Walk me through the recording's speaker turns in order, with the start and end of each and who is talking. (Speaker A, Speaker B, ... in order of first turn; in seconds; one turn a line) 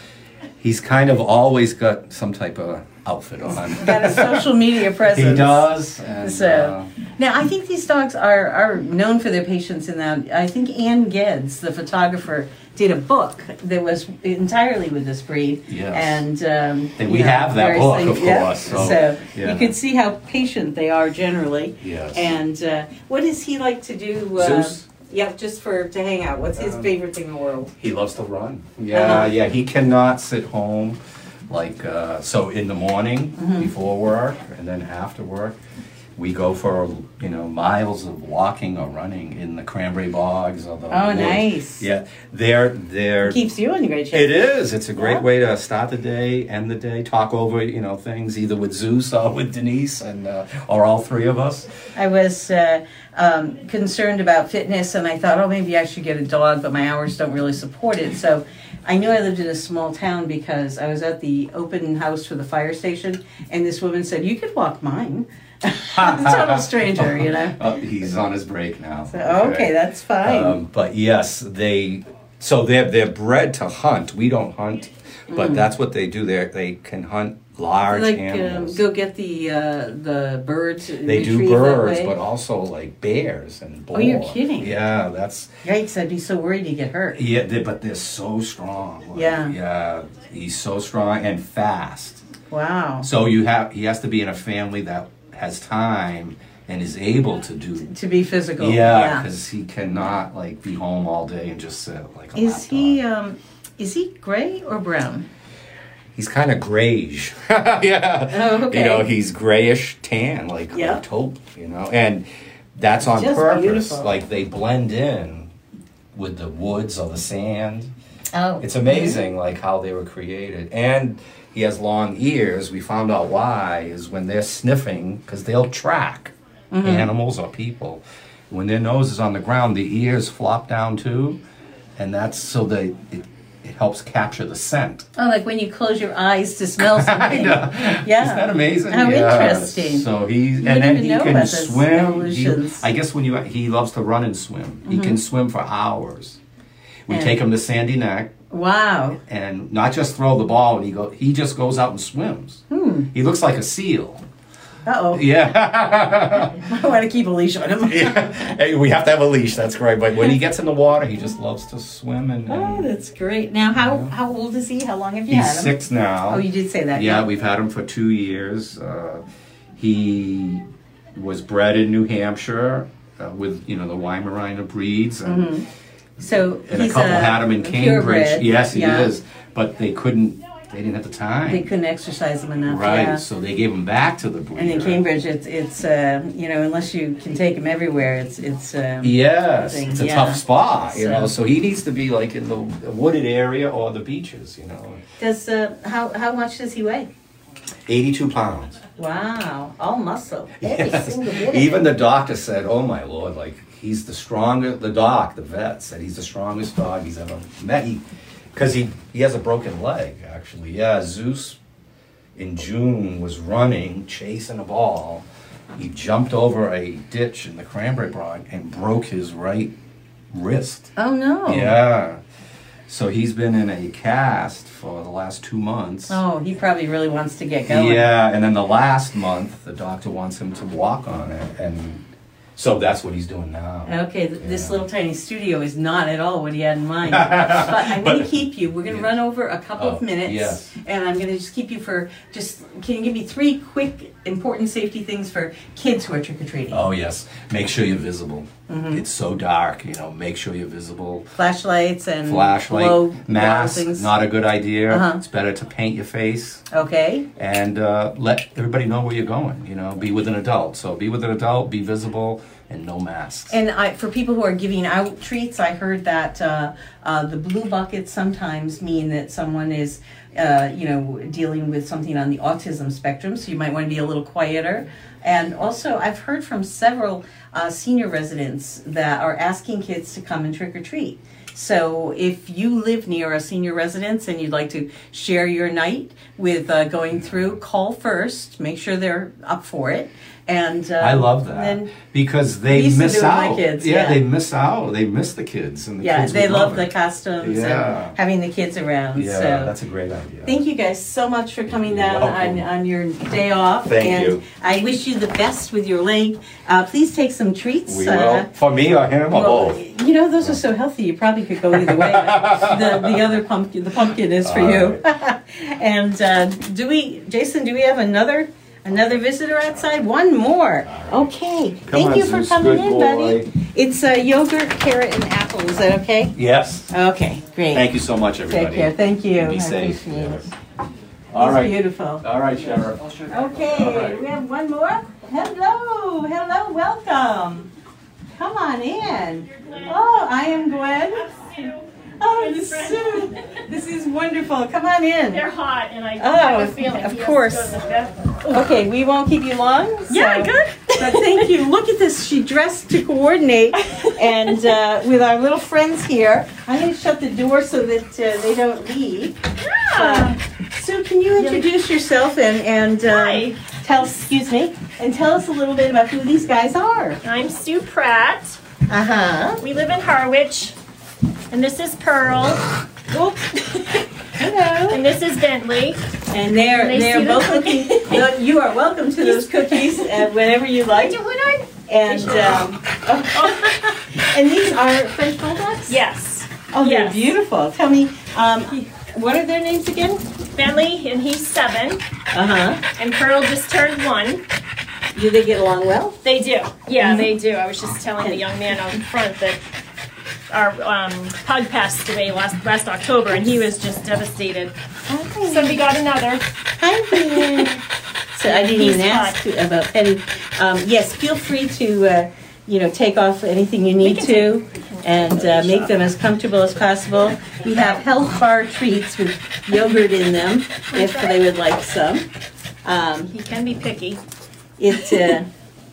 Speaker A: 0.6-4.5
Speaker B: 3.7-27.7
Speaker A: 5.0-6.9
Speaker A: 15.7-16.2
Speaker A: 17.0-19.7
Speaker A: 21.8-22.3
Speaker A: 24.4-24.9
Speaker A: 26.6-26.9
Speaker A: 27.8-31.0
Speaker B: 28.9-29.3
Speaker A: 31.5-35.6
Speaker B: 33.4-33.7
Speaker A: 36.2-43.4
Speaker B: 40.9-41.9
Speaker B: 43.2-44.4
Speaker A: 44.1-51.7
Speaker B: 45.0-45.2
Speaker B: 52.0-67.6
Speaker A: 66.0-69.7
Speaker B: 69.1-70.6
Speaker A: 70.2-78.8
Speaker B: 75.3-75.7
Speaker B: 77.8-82.1
Speaker A: 81.0-85.5
Speaker B: 83.9-84.7
Speaker B: 85.6-87.2
Speaker A: 87.2-92.2
Speaker B: 89.1-89.5
Speaker B: 92.5-93.1
Speaker A: 93.0-97.9
Speaker B: 97.8-99.3
Speaker A: 98.6-103.0
Speaker B: 102.3-105.3
Speaker A: 106.2-115.5
Speaker B: 108.3-109.1
Speaker B: 110.7-111.0
Speaker B: 113.0-114.1
Speaker A: 116.1-117.9
Speaker B: 118.3-119.2
Speaker A: 118.6-126.3
Speaker B: 126.7-127.1
Speaker A: 126.8-131.4
Speaker A: 132.0-135.1
Speaker B: 135.2-140.1
Speaker A: 136.9-146.4
Speaker B: 140.6-142.8
Speaker B: 144.9-145.2
Speaker A: 147.1-148.4
Speaker B: 147.1-147.4
Speaker B: 148.5-149.2
Speaker A: 149.3-154.2
Speaker B: 152.7-153.1
Speaker B: 154.9-155.3
Speaker A: 155.1-156.6
Speaker B: 156.6-158.3
Speaker A: 157.8-162.9
Speaker B: 162.5-165.8
Speaker A: 163.8-164.1
Speaker A: 165.3-169.2
Speaker B: 166.3-167.3
Speaker A: 169.8-175.5
Speaker B: 175.2-175.6
Speaker B: 176.2-179.1
Speaker A: 176.7-181.7
Speaker B: 181.5-183.2
Speaker A: 182.7-185.0
Speaker B: 184.6-191.3
Speaker A: 189.0-195.0
Speaker B: 195.2-197.1
Speaker A: 197.9-198.8
Speaker B: 199.0-202.0
Speaker A: 200.6-211.6
Speaker A: 212.4-219.7
Speaker A: 220.3-220.9
Speaker B: 221.0-221.8
Speaker A: 221.5-222.2
Speaker A: 222.9-226.2
Speaker B: 226.1-228.1
Speaker A: 227.7-232.0
Speaker A: 232.6-234.8
Speaker B: 233.9-246.8
Speaker A: 237.1-238.3
Speaker A: 239.8-240.7
Speaker A: 246.7-251.3
Speaker B: 248.7-249.0
Speaker B: 251.4-254.1
Speaker A: 252.3-256.6
Speaker B: 254.9-255.2
Speaker B: 256.7-257.3
Speaker A: 257.4-263.5
Speaker B: 263.5-291.9
Speaker A: 291.0-296.9
Speaker B: 292.7-294.2
Speaker B: 296.0-299.7
Speaker A: 297.4-298.2
Speaker A: 299.1-300.5
Speaker B: 300.4-308.5
Speaker A: 301.7-302.6
Speaker A: 303.9-304.4
Speaker A: 307.9-309.8
Speaker B: 309.3-326.4
Speaker A: 311.7-313.1
Speaker A: 314.4-315.0
Speaker A: 321.9-323.5
Speaker A: 326.4-326.9
Speaker B: 326.9-327.9
Speaker A: 327.7-330.5
Speaker B: 328.5-330.4
Speaker A: 331.3-334.2
Speaker B: 331.4-332.2
Speaker B: 333.3-337.7
Speaker B: 338.4-341.3
Speaker C: 341.1-343.5
Speaker B: 342.2-345.4
Speaker C: 345.3-348.7
Speaker B: 346.2-347.8
Speaker B: 348.5-359.4
Speaker C: 350.1-351.5
Speaker C: 353.8-354.7
Speaker C: 359.6-360.4
Speaker B: 359.9-367.2
Speaker C: 361.4-361.6
Speaker C: 363.1-363.6
Speaker C: 367.2-368.6
Speaker B: 368.9-369.6
Speaker C: 369.6-370.7
Speaker C: 371.5-372.7
Speaker B: 373.1-373.6
Speaker B: 374.4-375.0
Speaker C: 374.9-376.0
Speaker B: 376.3-381.2
Speaker C: 376.6-378.3
Speaker C: 379.2-380.3
Speaker C: 380.8-382.8
Speaker B: 381.9-386.0
Speaker C: 383.3-383.7
Speaker C: 385.9-387.3
Speaker B: 386.7-390.3
Speaker C: 390.6-392.0
Speaker B: 392.3-392.8
Speaker C: 393.0-394.4
Speaker B: 395.1-396.2
Speaker C: 396.2-399.6
Speaker B: 397.0-397.3
Speaker C: 400.5-404.8
Speaker B: 405.1-405.9
Speaker C: 405.5-406.5
Speaker B: 406.8-407.8
Speaker C: 407.1-407.8
Speaker B: 408.3-422.3
Speaker C: 408.4-409.4
Speaker C: 414.0-415.9
Speaker C: 417.6-418.0
Speaker C: 420.9-421.4
Speaker B: 422.9-423.3
Speaker C: 423.3-424.2
Speaker B: 424.8-425.5
Speaker C: 425.0-425.4